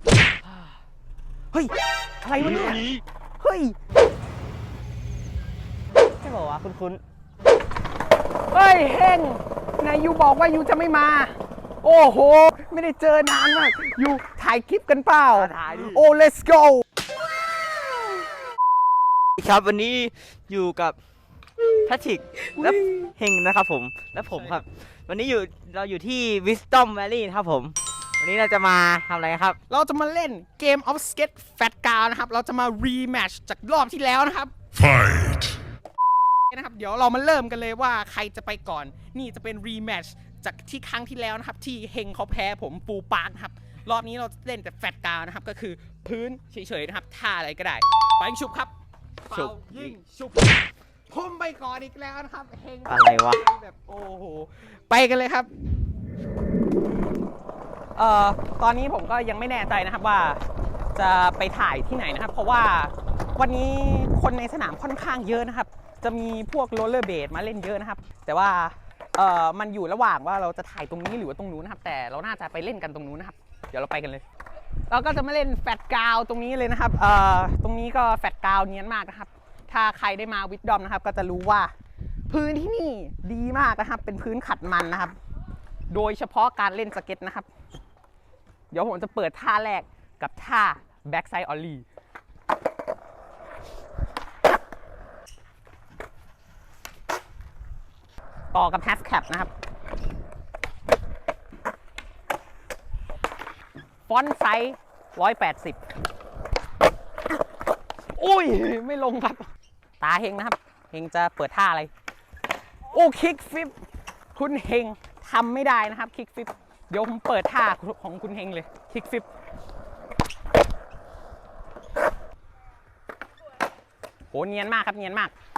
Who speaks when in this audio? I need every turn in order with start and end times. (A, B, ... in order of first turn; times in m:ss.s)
0:01.5-0:03.8 A
0:06.2-0:07.0 B
0:08.5-0:16.8 A
0:15.3-0:16.0 B
0:19.4-0:21.0 B
0:21.8-0:29.6 B
0:29.7-0:34.5 A
0:36.5-0:48.7 A
0:49.3-0:55.5 A
0:49.3-0:49.9 B
0:52.9-0:53.4 B
0:58.0-1:00.4 A
1:01.0-1:14.2 A
1:14.9-1:21.7 A
1:22.3-1:25.1 A
1:25.9-1:27.5 A
1:28.7-1:31.8 A
1:38.5-1:39.5 A
1:44.1-1:45.8 A
1:48.1-1:49.5 A
1:50.0-1:51.9 A
1:52.9-1:53.8 A
1:54.3-1:59.2 A
2:04.3-2:05.3 A